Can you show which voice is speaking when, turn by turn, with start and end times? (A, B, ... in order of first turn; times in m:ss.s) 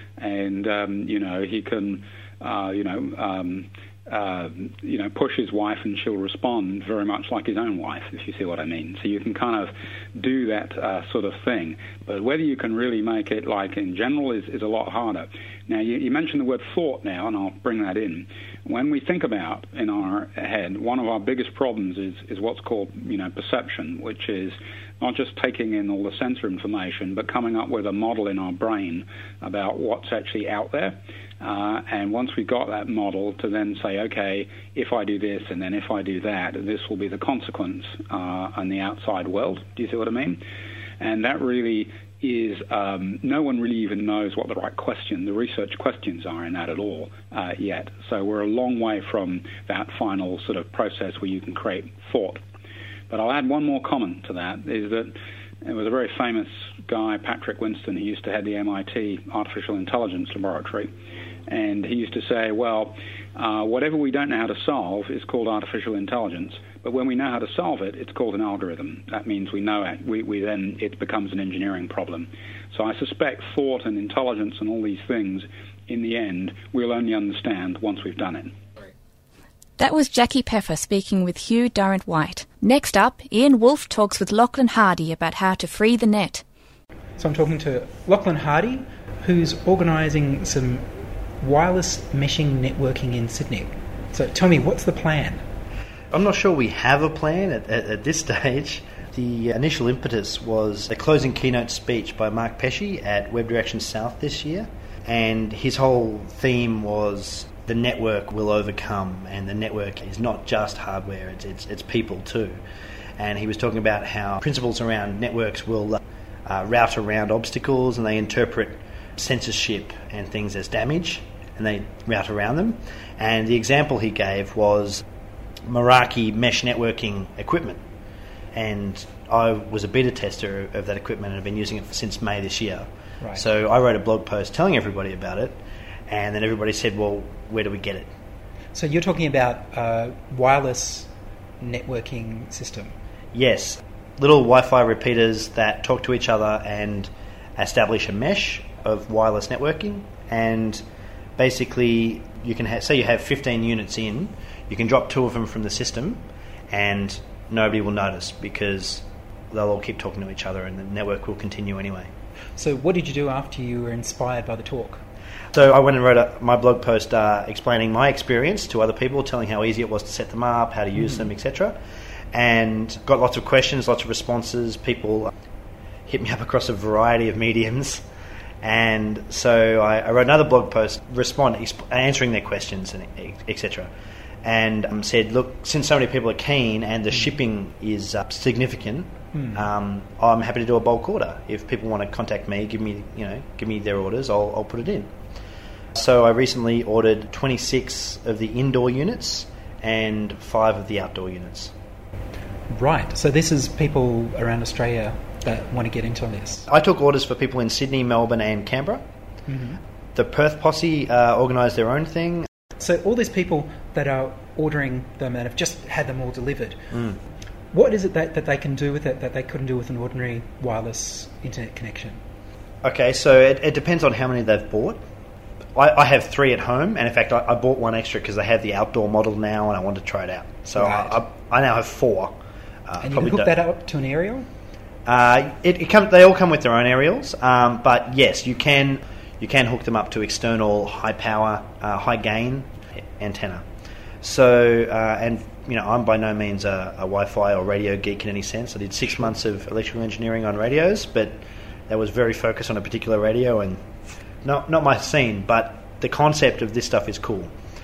0:00.2-0:40.4 A
0:41.0-0:52.4 A
0:53.1-1:00.9 A
1:01.5-1:18.6 A
1:19.8-1:26.4 B
1:27.2-1:30.9 C
1:31.4-1:35.4 C
1:36.1-1:52.6 D
1:53.2-2:05.0 D
2:05.7-2:07.8 D
2:08.5-2:18.1 D
2:18.8-2:21.1 C
2:21.6-2:23.0 C
2:23.3-2:30.8 D
2:31.4-2:42.1 D
2:42.6-2:45.0 C
2:45.5-2:51.8 D
2:51.0-2:51.3 C
2:52.3-2:55.3 D
2:56.1-2:58.0 D
2:58.6-3:03.9 D
3:04.4-3:15.1 D
3:09.3-3:09.7 C
3:16.0-3:21.7 D
3:22.7-3:26.7 C
3:26.7-3:29.0 D
3:29.5-3:29.8 C
3:30.2-3:32.5 D
3:32.8-3:36.8 C
3:36.9-3:37.2 D
3:37.7-3:42.2 C
3:42.8-3:45.0 D
3:45.8-3:53.6 D
3:50.8-3:51.2 C
3:53.0-3:54.5 C
3:55.1-4:03.6 D
4:04.2-4:13.8 D
4:14.4-4:17.5 D